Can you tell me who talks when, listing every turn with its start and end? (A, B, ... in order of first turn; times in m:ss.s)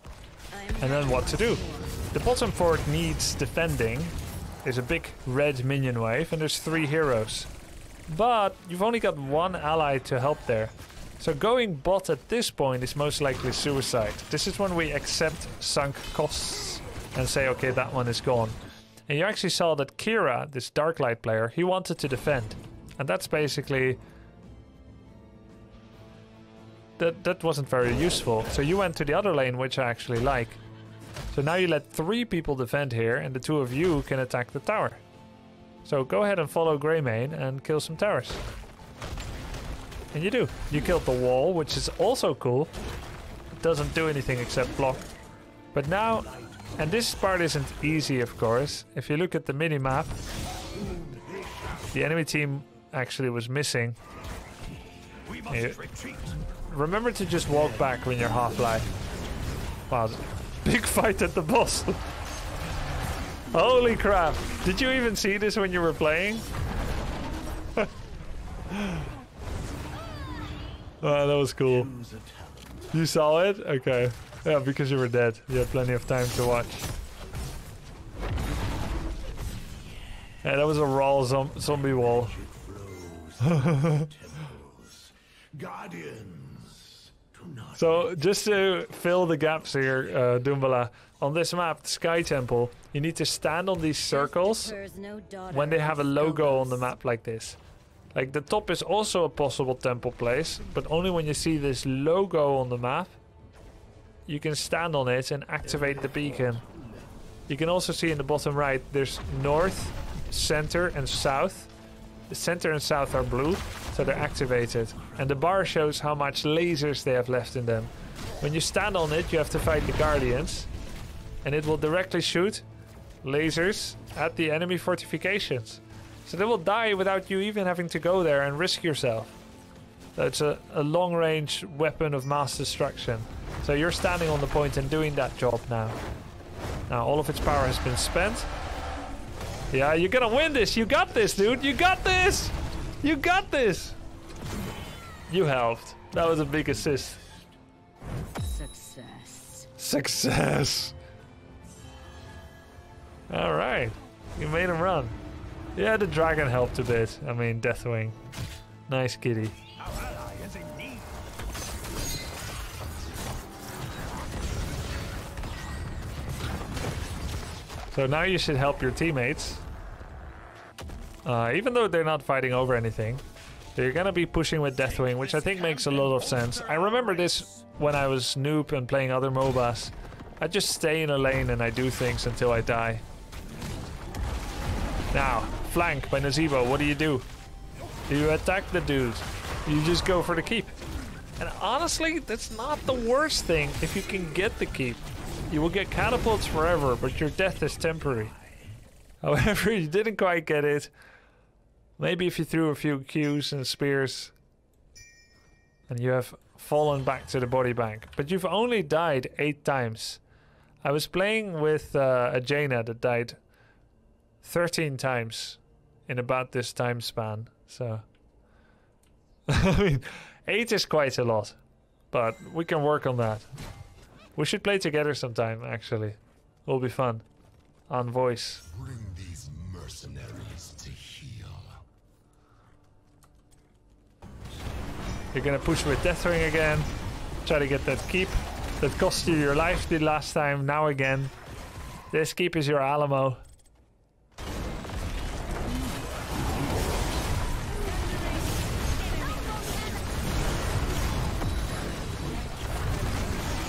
0:00.5-0:02.1 A
0:00.8-0:07.5 B
0:08.1-0:24.0 B
0:27.0-0:30.6 B
0:31.3-0:35.0 B
0:35.8-0:38.4 B
0:40.1-0:42.8 B
0:43.6-0:45.1 B
0:45.7-0:50.1 B
0:50.8-0:51.8 C
0:51.9-0:54.0 B
0:55.2-0:56.3 C
0:55.4-0:58.9 B
0:59.9-1:02.0 B
1:03.5-1:06.5 B
1:08.7-1:09.1 B
1:11.0-1:11.9 B
1:11.9-1:12.9 C
1:12.9-1:16.9 B
1:20.4-1:22.4 B
1:22.4-1:27.7 C
1:23.4-1:24.1 B
1:27.7-1:34.8 B
1:34.1-1:36.9 A
1:35.5-1:37.6 B
1:38.2-1:43.2 B
1:44.3-1:46.6 B
1:47.5-1:51.7 B
1:52.3-2:00.7 B
2:01.4-2:02.6 B
2:03.2-2:09.4 B
2:10.2-2:16.0 B
2:16.9-2:18.5 B
2:19.7-2:24.0 B
2:25.3-2:27.2 B
2:28.4-2:29.7 A
2:29.8-2:31.0 B
2:33.3-2:35.2 B
2:35.8-2:38.2 B
2:38.9-2:39.6 B
2:40.0-2:41.0 C
2:47.9-2:49.6 B
2:51.2-2:53.2 B
2:53.8-3:03.0 B
3:05.1-3:07.3 B
3:08.1-3:10.8 B
3:11.4-3:18.4 B
3:19.2-3:20.9 B
3:22.0-3:24.3 B
3:25.9-3:30.2 B
3:30.8-3:33.4 B
3:34.4-3:38.0 B
3:39.5-3:41.6 B
3:42.1-3:43.5 B
3:44.4-3:47.2 B
3:47.9-3:48.7 B
3:48.9-3:51.8 C
3:55.3-3:56.9 B
3:57.4-4:01.3 B
4:02.1-4:03.4 B